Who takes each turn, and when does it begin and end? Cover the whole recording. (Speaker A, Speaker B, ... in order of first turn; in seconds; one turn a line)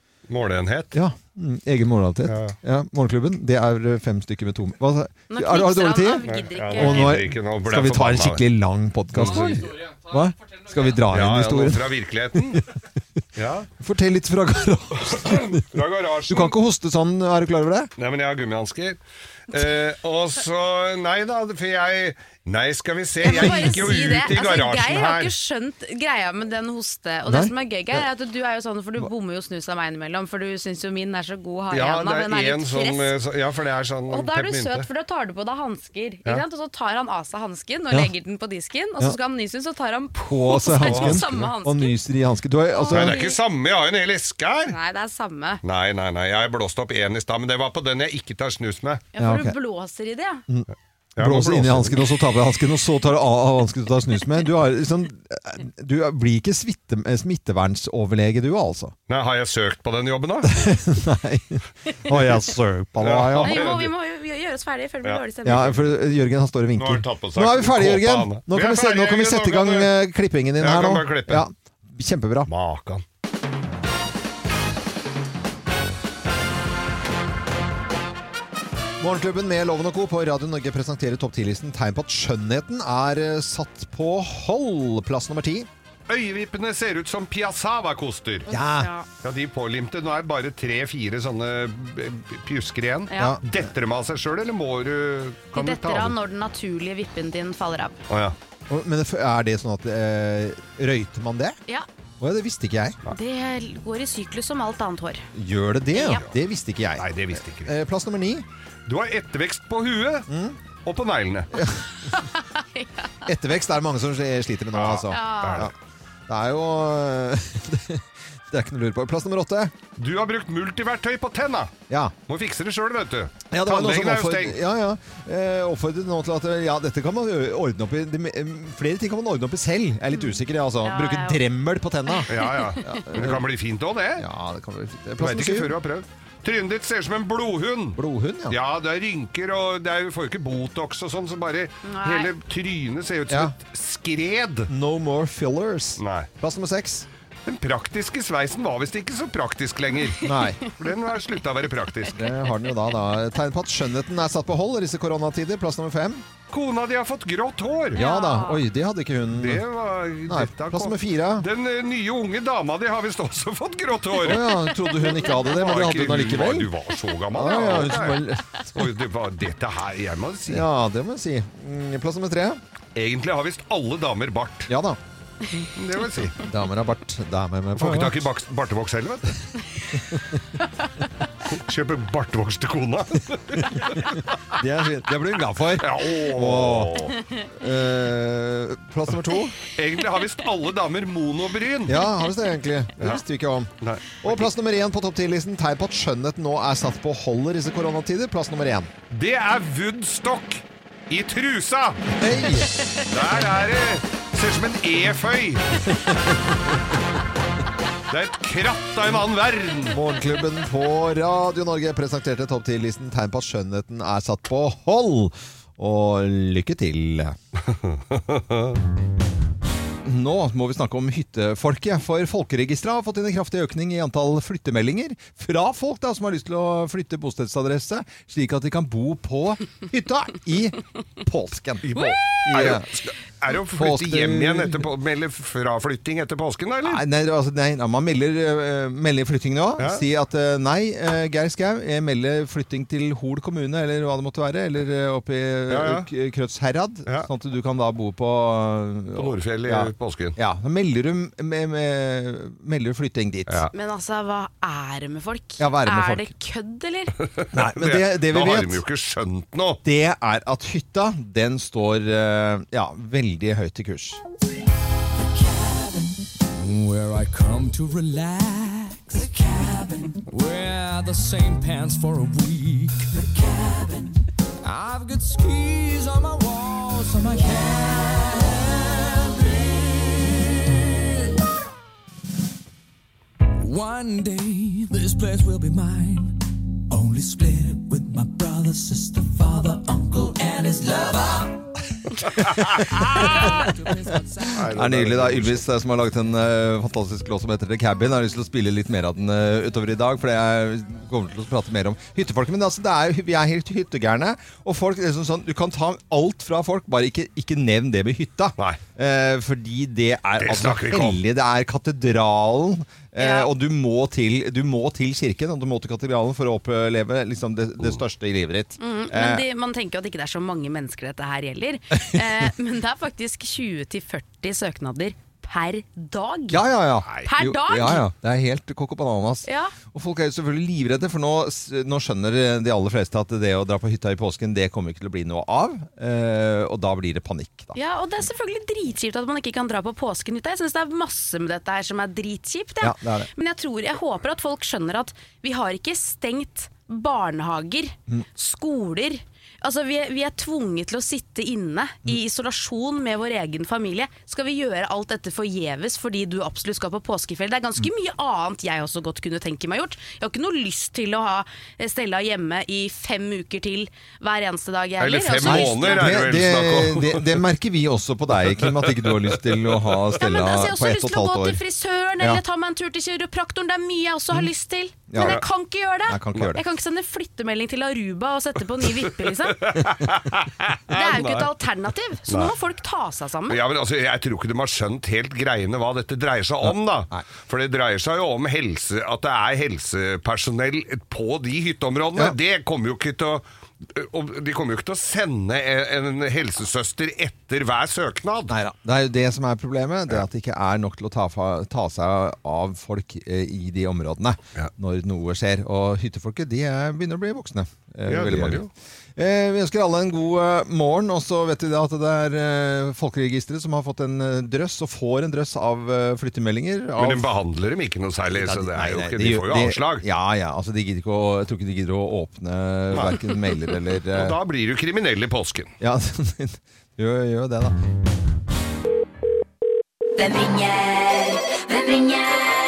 Speaker A: 0.3-0.9
Speaker B: 0.9-6.2
Speaker A: 2.2-2.6
Speaker C: 5.3-7.2
Speaker A: 6.2-8.4
Speaker B: 6.7-12.6
Speaker A: 9.1-9.7
Speaker A: 11.1-12.6
Speaker A: 13.3-13.7
Speaker B: 13.8-15.6
Speaker A: 15.1-16.6
Speaker B: 16.3-17.9
Speaker A: 18.0-25.3
Speaker C: 23.2-33.1
Speaker B: 27.2-27.5
Speaker A: 31.7-34.9
Speaker C: 34.1-42.0
Speaker B: 40.1-43.2
Speaker A: 40.8-41.3
Speaker C: 42.7-43.4
Speaker A: 42.9-44.8
Speaker C: 44.6-45.6
Speaker A: 45.6-49.0
Speaker C: 49.1-50.4
Speaker B: 49.2-49.5
Speaker B: 50.5-58.9
Speaker A: 51.2-52.2
Speaker A: 59.1-60.5
Speaker B: 60.4-63.8
Speaker A: 63.0-63.9
Speaker C: 63.4-66.0
Speaker A: 65.0-65.7
Speaker B: 65.4-72.5
Speaker A: 66.7-69.9
Speaker A: 70.6-71.4
Speaker A: 72.5-73.0
Speaker B: 79.0-85.7
Speaker A: 86.1-88.5
Speaker C: 88.5-89.1
Speaker B: 88.5-88.9
Speaker A: 89.2-96.2
Speaker C: 93.1-93.4
Speaker B: 93.2-93.4
Speaker C: 95.5-98.0
Speaker A: 98.1-98.3
Speaker B: 98.7-101.6
Speaker B: 102.2-103.0
Speaker C: 103.1-105.2
Speaker B: 105.3-107.1
Speaker C: 105.9-106.3
Speaker A: 107.0-107.7
Speaker B: 107.6-108.4
Speaker A: 108.9-110.3
Speaker B: 110.3-110.6
Speaker A: 110.8-111.5
Speaker B: 111.5-111.9
Speaker C: 112.1-113.2
Speaker B: 113.2-115.7
Speaker A: 114.7-115.7
Speaker C: 115.1-115.7
Speaker B: 116.3-119.7
Speaker A: 120.0-121.7
Speaker B: 121.9-122.1
Speaker A: 122.3-124.6
Speaker B: 123.5-133.5
Speaker C: 130.1-131.4
Speaker C: 132.1-133.0
Speaker A: 132.3-134.3
Speaker B: 134.2-135.8
Speaker A: 135.2-138.0
Speaker B: 137.9-138.6
Speaker A: 138.5-144.7
Speaker C: 141.8-142.3
Speaker B: 143.3-143.6
Speaker B: 144.7-147.1
Speaker A: 146.0-146.3
Speaker A: 147.4-152.2
Speaker B: 150.2-150.6
Speaker B: 152.1-156.2
Speaker A: 156.5-158.0
Speaker C: 157.9-158.6
Speaker B: 157.9-159.6
Speaker A: 159.3-164.6
Speaker B: 160.3-161.5
Speaker B: 164.2-166.7
Speaker A: 165.4-170.7
Speaker B: 167.3-168.4
Speaker B: 170.5-172.6
Speaker A: 172.9-174.7
Speaker B: 174.7-175.0
Speaker A: 175.7-176.4
Speaker B: 176.4-178.3
Speaker A: 177.8-179.3
Speaker A: 181.5-184.4
Speaker B: 183.7-189.6
Speaker A: 185.8-187.2
Speaker A: 189.7-192.0
Speaker B: 191.9-193.7
Speaker A: 193.8-194.5
Speaker B: 194.2-198.9
Speaker A: 199.1-202.1
Speaker B: 202.1-202.8
Speaker A: 203.1-205.8
Speaker B: 206.0-206.4
Speaker A: 208.1-210.0
Speaker B: 209.9-217.3
Speaker A: 217.8-218.8
Speaker B: 220.0-232.8
Speaker A: 231.8-237.0
Speaker B: 233.8-234.8
Speaker B: 236.8-253.7
Speaker A: 239.8-240.0
Speaker A: 245.7-246.1
Speaker A: 249.1-250.4
Speaker C: 253.7-257.2
Speaker B: 255.6-256.3
Speaker A: 257.3-259.8
Speaker B: 257.5-258.8
Speaker B: 259.8-264.2
Speaker D: 265.4-280.9
Speaker D: 283.5-291.5
Speaker B: 292.3-293.6
Speaker A: 292.4-293.5
Speaker D: 293.0-294.6
Speaker A: 294.5-295.7
Speaker B: 294.6-319.4
Speaker A: 310.4-311.2
Speaker C: 313.2-313.5
Speaker C: 318.8-326.7
Speaker B: 326.5-337.8
Speaker A: 327.1-327.3
Speaker C: 327.2-328.1
Speaker C: 329.4-329.7
Speaker C: 337.7-366.2
Speaker B: 342.8-343.3
Speaker A: 365.0-367.4
Speaker B: 365.4-371.6
Speaker A: 368.4-370.2
Speaker C: 370.2-379.7
Speaker B: 375.1-375.4
Speaker A: 375.2-375.4
Speaker B: 376.1-376.6
Speaker A: 378.9-381.5
Speaker C: 380.9-383.6
Speaker A: 382.3-382.6
Speaker A: 383.5-398.5
Speaker B: 386.6-387.2
Speaker B: 398.5-417.3
Speaker A: 408.1-408.7
Speaker A: 417.0-420.0
Speaker B: 418.3-424.4
Speaker A: 422.9-423.2
Speaker A: 424.1-425.7
Speaker B: 425.8-427.8